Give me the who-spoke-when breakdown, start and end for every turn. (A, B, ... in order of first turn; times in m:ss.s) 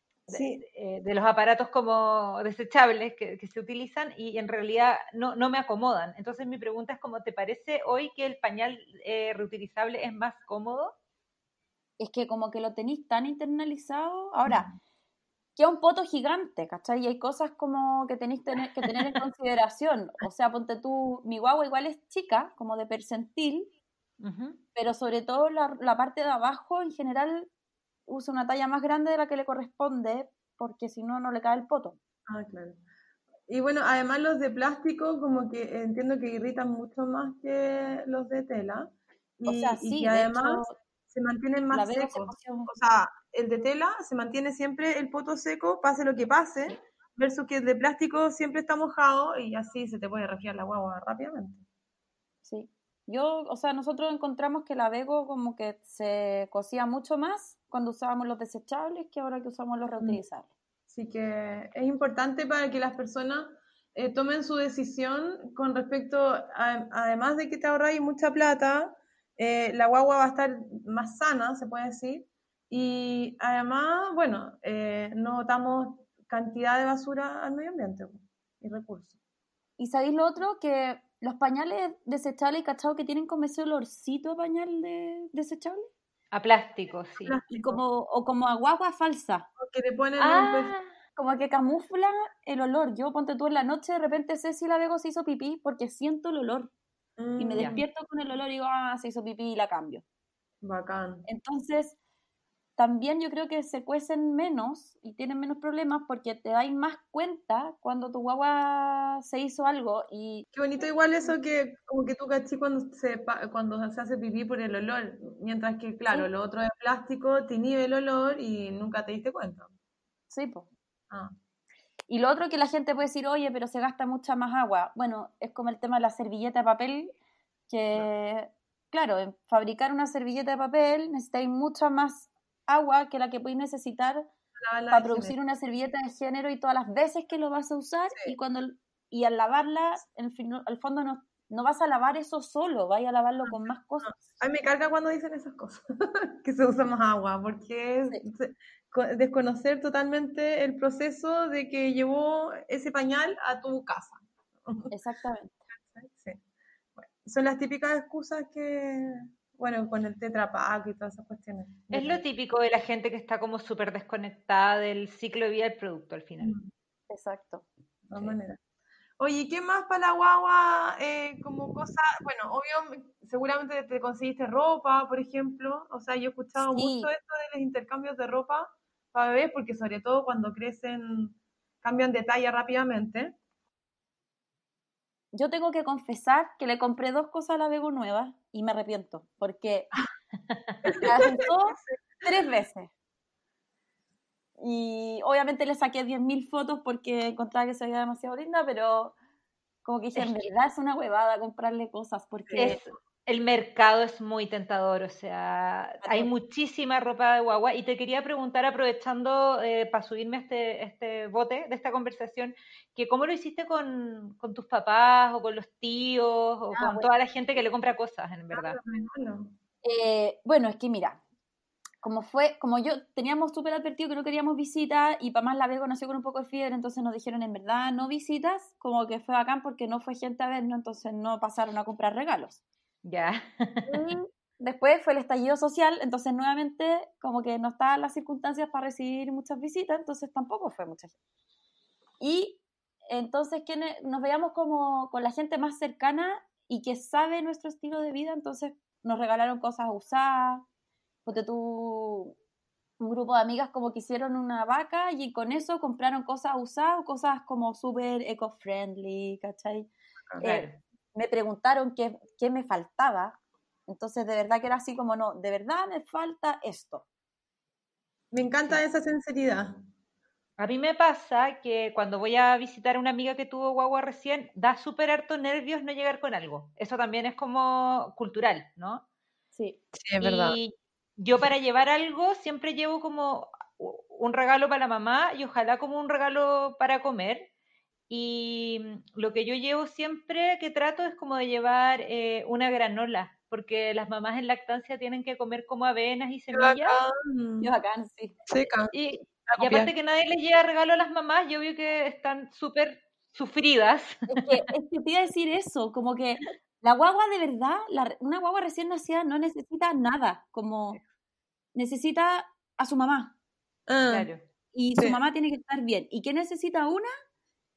0:00.3-0:00.6 A
0:00.3-0:10.9 B
0:12.0-0:14.7 C
0:14.5-0:14.7 A
0:15.6-0:23.7 C
0:24.2-0:24.6 B
0:24.7-0:27.5 C
0:28.1-0:32.0 C
0:32.3-0:32.8 A
0:33.5-0:51.6 A
0:39.4-0:40.8 C
0:41.7-0:42.7 C
0:52.4-1:00.5 C
1:00.9-1:19.1 A
1:19.8-1:25.9 C
1:26.3-1:27.4 B
1:27.2-1:27.8 A
1:27.5-1:29.5 C
1:29.6-1:30.7 A
1:30.2-1:30.9 B
1:31.2-1:36.7 C
1:37.2-1:37.8 A
1:37.4-1:40.0 C
1:40.6-1:41.2 A
1:41.2-1:42.0 C
1:42.8-1:50.4 C
1:50.5-1:59.7 A
2:00.3-2:00.7 C
2:02.1-2:07.1 C
2:07.7-2:14.3 C
2:14.6-2:15.3 A
2:14.9-2:24.2 C
2:23.5-2:34.9 A
2:34.9-2:35.6 C
2:35.9-2:36.4 A
2:37.0-2:42.2 A
2:41.9-2:46.5 B
2:46.4-2:46.7 A
2:47.1-2:47.6 C
2:48.1-2:48.6 A
2:49.2-3:03.3 A
2:56.6-2:57.1 C
3:05.3-3:09.9 C
3:10.8-3:12.0 A
3:11.0-3:12.9 C
3:14.6-3:19.1 C
3:19.8-3:22.8 C
3:20.2-3:20.5 B
3:22.4-3:22.8 A
3:22.6-3:38.8 B
3:26.0-3:26.3 C
3:36.7-3:37.1 C
3:38.5-3:39.5 A
3:39.8-3:41.2 C
3:42.0-3:52.6 C
3:53.0-3:53.9 B
3:53.9-4:01.1 C
4:02.2-4:10.6 C
4:11.2-4:12.3 C
4:13.0-4:27.0 C
4:20.4-4:20.8 B
4:28.3-4:29.7 A
4:30.6-4:39.0 B
4:39.5-4:39.8 C
4:39.9-4:40.6 A
4:40.2-4:47.5 B
4:48.1-4:57.0 B
4:56.5-4:57.7 A
4:57.6-4:58.4 C
4:58.5-4:58.9 A
4:58.9-5:04.6 B
4:59.5-4:59.9 A
5:04.3-5:11.0 C
5:11.7-5:13.3 C
5:13.9-5:14.3 A
5:14.1-5:14.4 B
5:14.7-5:17.1 C